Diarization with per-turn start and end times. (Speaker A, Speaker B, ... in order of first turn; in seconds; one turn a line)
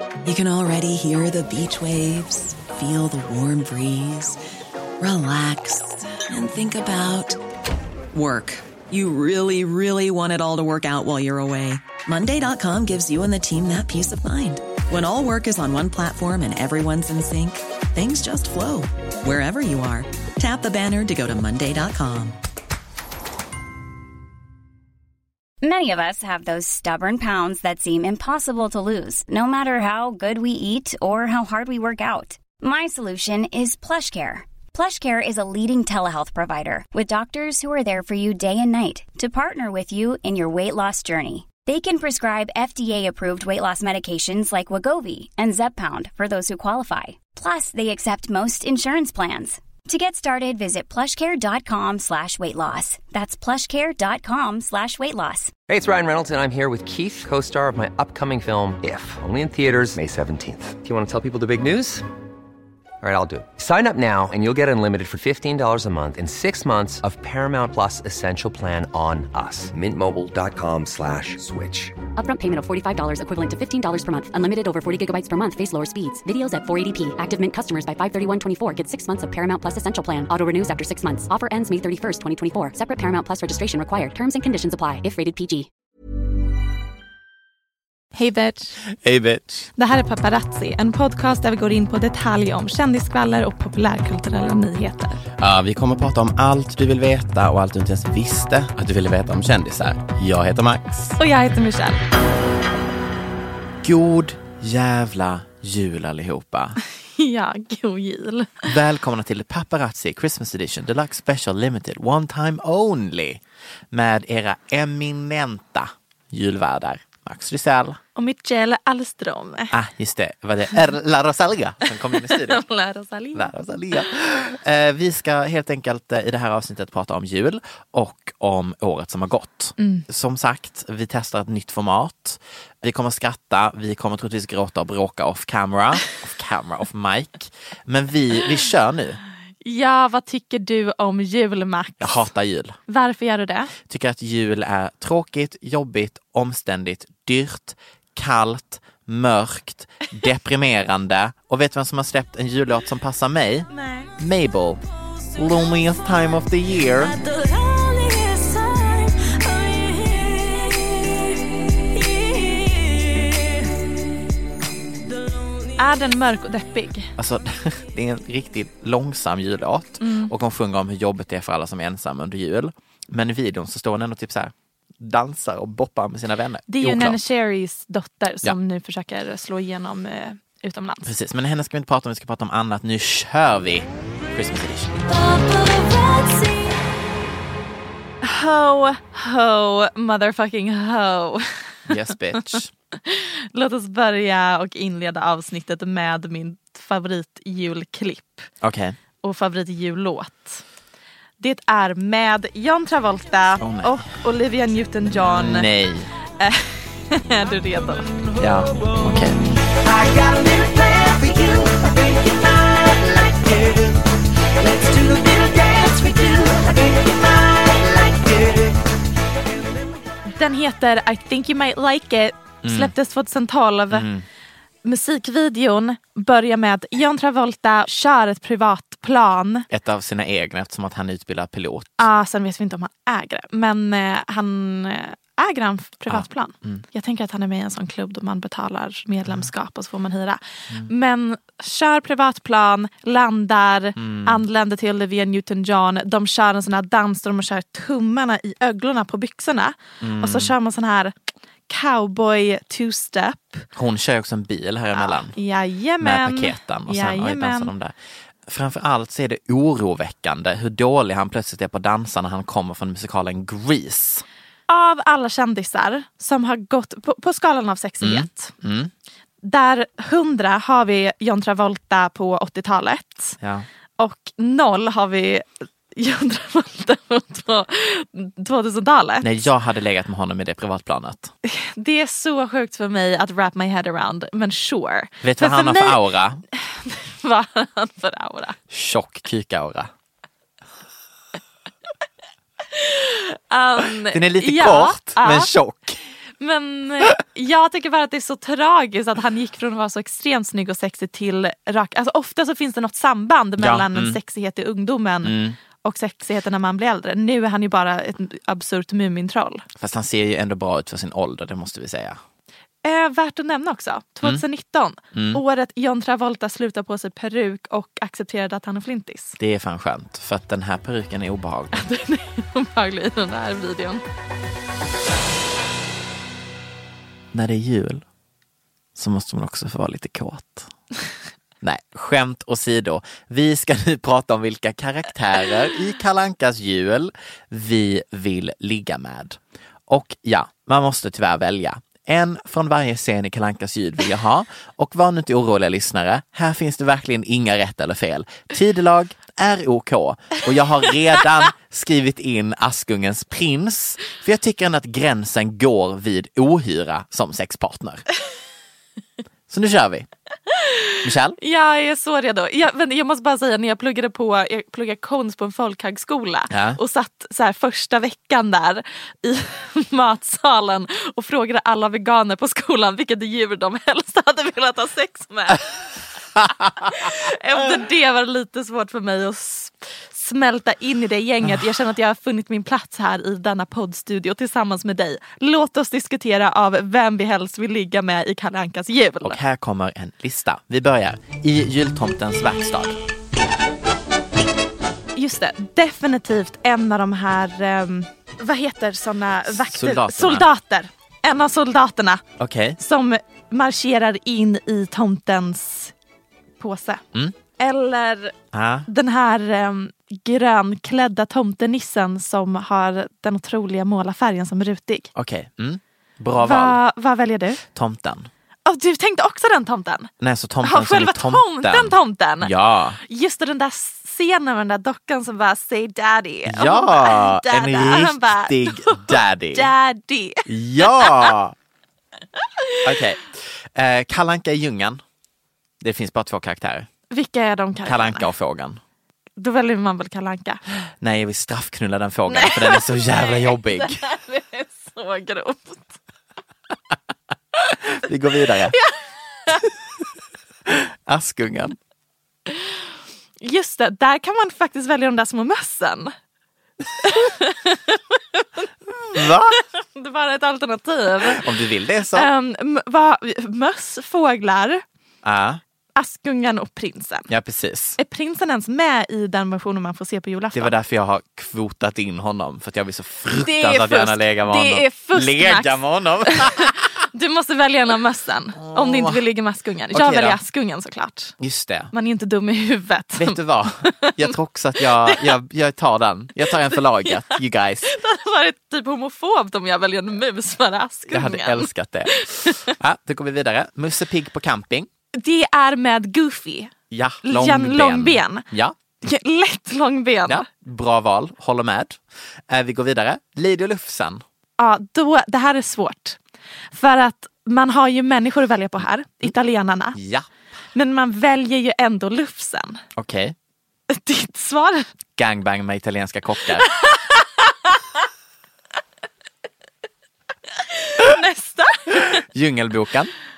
Speaker A: 0.2-4.4
Speaker A: 5.0-7.4
Speaker A: 8.1-22.4
Speaker B: 25.6-55.5
Speaker C: 55.7-62.0
Speaker C: 63.0-72.0
Speaker D: 72.2-85.7
Speaker E: 88.1-88.8
Speaker F: 89.0-89.7
Speaker E: 89.8-95.2
Speaker F: 95.4-101.2
Speaker E: 101.2-102.0
Speaker F: 103.8-106.8
Speaker E: 107.2-108.7
Speaker F: 108.7-118.0
Speaker E: 118.2-119.7
Speaker F: 119.7-122.6
Speaker E: 122.1-123.5
Speaker F: 123.3-139.2
Speaker E: 129.8-130.1
Speaker E: 139.6-142.2
Speaker F: 142.0-142.8
Speaker E: 142.9-143.7
Speaker F: 143.9-154.8
Speaker E: 153.8-154.1
Speaker F: 155.3-157.2
Speaker E: 157.2-160.8
Speaker E: 165.7-167.1
Speaker F: 167.2-177.2
Speaker E: 170.0-170.3
Speaker E: 176.7-181.1
Speaker F: 181.1-185.1
Speaker E: 185.4-186.7
Speaker E: 188.2-191.5
Speaker F: 191.9-192.7
Speaker E: 193.1-198.5
Speaker F: 198.6-199.0
Speaker E: 199.2-200.6
Speaker E: 201.4-205.7
Speaker F: 203.6-204.1
Speaker F: 205.2-206.1
Speaker E: 206.4-208.2
Speaker F: 208.4-209.6
Speaker E: 210.0-211.7
Speaker E: 212.4-213.7
Speaker E: 214.7-218.7
Speaker E: 220.3-224.1
Speaker F: 222.6-222.9
Speaker F: 223.9-224.2
Speaker E: 224.8-229.7
Speaker F: 229.7-232.1
Speaker E: 232.0-251.1
Speaker F: 236.1-236.8
Speaker F: 244.0-244.4
Speaker F: 250.0-250.5
Speaker E: 251.7-253.7
Speaker F: 253.8-255.4
Speaker E: 255.0-257.7
Speaker F: 256.0-257.9
Speaker F: 258.5-264.2
Speaker E: 264.7-268.5
Speaker F: 268.0-268.9
Speaker E: 269.4-273.4
Speaker F: 273.4-273.7
Speaker E: 274.0-279.3
Speaker F: 279.2-281.3
Speaker E: 281.4-286.0
Speaker F: 285.2-286.4
Speaker E: 286.5-288.6
Speaker F: 288.7-289.9
Speaker E: 292.7-295.5
Speaker F: 294.1-296.0
Speaker E: 296.4-309.6
Speaker F: 303.6-304.2
Speaker F: 305.2-305.6
Speaker F: 309.8-312.2
Speaker E: 312.8-319.4
Speaker F: 315.1-315.4
Speaker F: 319.4-321.9
Speaker E: 321.8-324.0
Speaker F: 327.3-328.1
Speaker F: 328.9-330.7
Speaker F: 331.6-358.0
Speaker F: 359.5-360.1
Speaker F: 361.0-361.4
Speaker E: 361.4-375.7
Speaker F: 366.5-366.8
Speaker E: 376.8-389.4
Speaker F: 389.2-393.0
Speaker E: 395.1-402.2
Speaker F: 399.4-400.5
Speaker F: 402.4-402.8
Speaker E: 402.8-405.9
Speaker E: 406.6-407.0
Speaker E: 407.6-408.4
Speaker F: 408.5-408.9
Speaker E: 408.9-415.1
Speaker F: 415.1-416.8
Speaker E: 416.4-417.6
Speaker F: 417.7-418.3
Speaker E: 418.7-420.1
Speaker F: 420.2-423.0
Speaker E: 420.6-422.5
Speaker E: 423.0-431.3
Speaker F: 426.5-429.7
Speaker F: 430.5-431.6
Speaker E: 432.4-432.8
Speaker F: 432.8-435.0
Speaker F: 435.8-436.9
Speaker E: 437.1-438.3
Speaker F: 437.9-438.8
Speaker E: 439.4-440.6
Speaker F: 441.0-444.0
Speaker E: 442.3-446.0
Speaker F: 447.7-448.8
Speaker E: 448.7-449.6
Speaker F: 450.7-451.8
Speaker E: 453.4-456.1
Speaker E: 457.0-458.6
Speaker F: 459.1-459.6
Speaker E: 459.2-461.4
Speaker F: 461.2-462.3
Speaker E: 462.1-464.8
Speaker F: 465.2-465.6
Speaker E: 466.0-467.3
Speaker F: 467.3-468.0
Speaker E: 468.0-470.8
Speaker F: 470.5-476.9
Speaker E: 473.4-481.4
Speaker F: 478.6-479.2
Speaker F: 479.9-480.4
Speaker F: 481.4-481.9
Speaker E: 481.9-485.4
Speaker F: 483.2-487.9
Speaker E: 486.5-492.7
Speaker F: 491.1-494.9
Speaker E: 495.2-496.7
Speaker F: 496.9-498.8
Speaker E: 497.2-498.4
Speaker E: 499.0-500.5
Speaker F: 500.3-504.2
Speaker E: 504.6-506.2
Speaker E: 506.7-510.0
Speaker F: 509.9-510.3
Speaker E: 510.8-512.8
Speaker F: 513.0-513.4
Speaker E: 513.9-514.9
Speaker F: 515.2-516.7
Speaker E: 520.6-522.2
Speaker F: 522.2-523.1